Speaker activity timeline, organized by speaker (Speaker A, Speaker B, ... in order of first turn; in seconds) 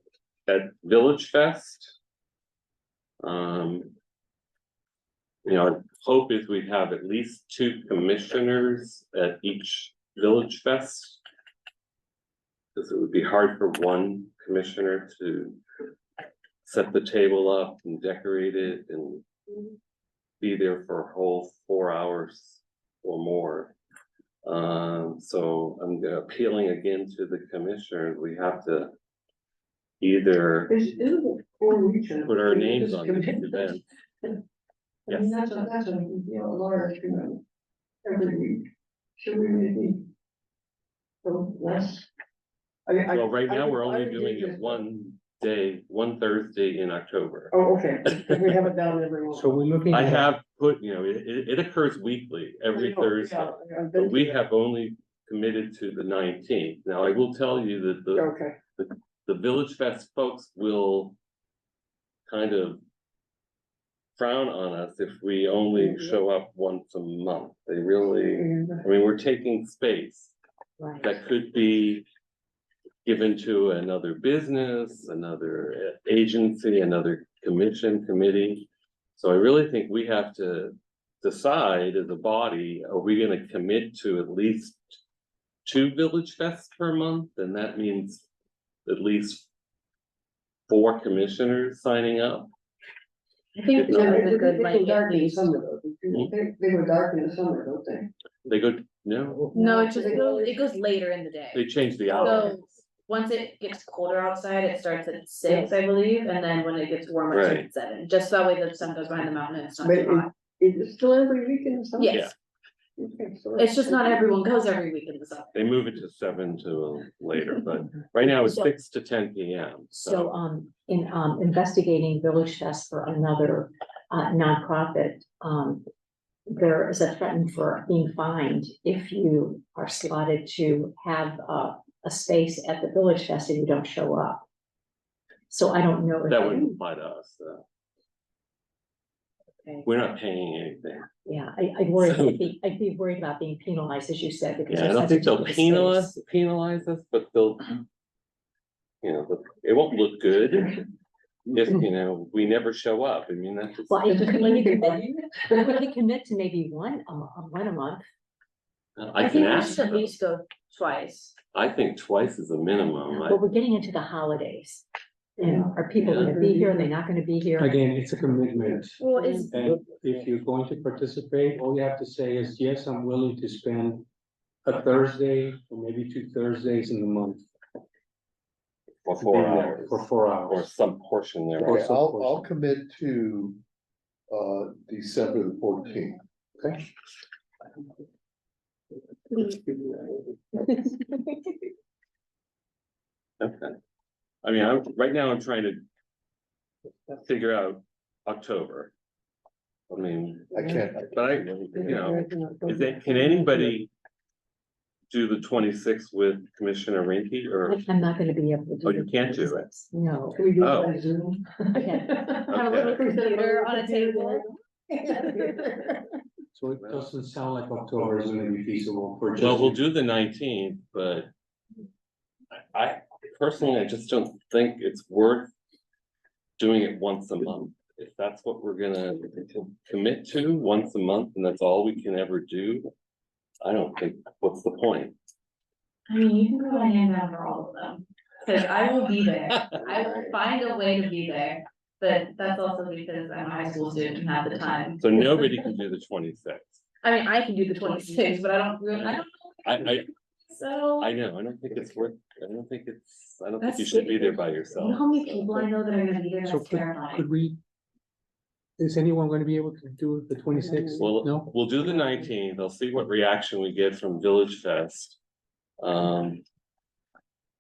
Speaker A: 0.5-2.0, 3.2-3.9, 5.5-11.2, 12.8-15.6, 16.6-19.3, 20.4-23.8, 24.4-28.9, 30.0-30.8, 32.2-33.8, 35.1-35.3, 43.1-47.5, 49.9-61.2, 62.3-62.8, 64.2-70.3, 71.0-72.1, 73.0-85.0, 85.7-88.3, 88.9-89.5, 90.7-92.5, 93.8-94.2, 98.5-99.6, 101.5-102.6, 107.3-107.7, 115.5-120.3, 136.3-137.6, 139.8-141.1, 142.0-142.5, 144.7-147.8, 149.0-150.8, 151.5-154.2, 159.0-160.1, 161.5-163.4, 166.0-166.4, 179.1-181.8, 193.4-193.8, 194.4-195.8, 197.2-198.9, 199.9-203.9, 205.1-207.8, 208.8-209.8, 210.6-211.0, 212.5-213.1, 216.7-217.1, 219.4-221.3, 222.7-225.5, 226.6-232.9, 233.6-235.2, 245.0-246.8, 248.9-250.1, 251.0-255.7, 261.0-265.2, 265.8-266.4
Speaker B: 30.7-34.4, 35.1-37.4, 38.0-40.1, 41.2-42.1, 42.9-44.8, 47.5-49.6, 52.7-54.3, 58.1-58.6, 68.4-68.8, 93.8-98.1, 99.5-100.6, 102.2-102.5, 105.5-105.7, 109.8-112.3, 113.0-114.2, 154.1-155.8, 165.4-166.9, 200.6-200.9, 201.8-203.8, 210.3-216.0, 260.5-261.1
Speaker C: 49.3-50.3, 167.6-174.1, 174.7-177.4, 179.2-180.7, 181.6-182.5, 216.6-219.8, 256.5-257.6, 258.8-261.6
Speaker D: 70.8-71.1, 119.9-125.8, 126.5-134.5, 135.5-136.8, 141.3-146.2, 153.9-158.1, 163.3-164.8, 165.4-167.7, 207.7-210.5, 211.8-212.2
Speaker E: 93.6-95.5, 99.5-110.3, 112.0-112.3, 113.6-115.5, 159.2-161.4, 169.0-169.5, 212.5-214.4, 236.1-245.6, 247.0-251.1, 253.6-257.3
Speaker F: 181.6-183.6, 184.3-186.2, 200.5-202.1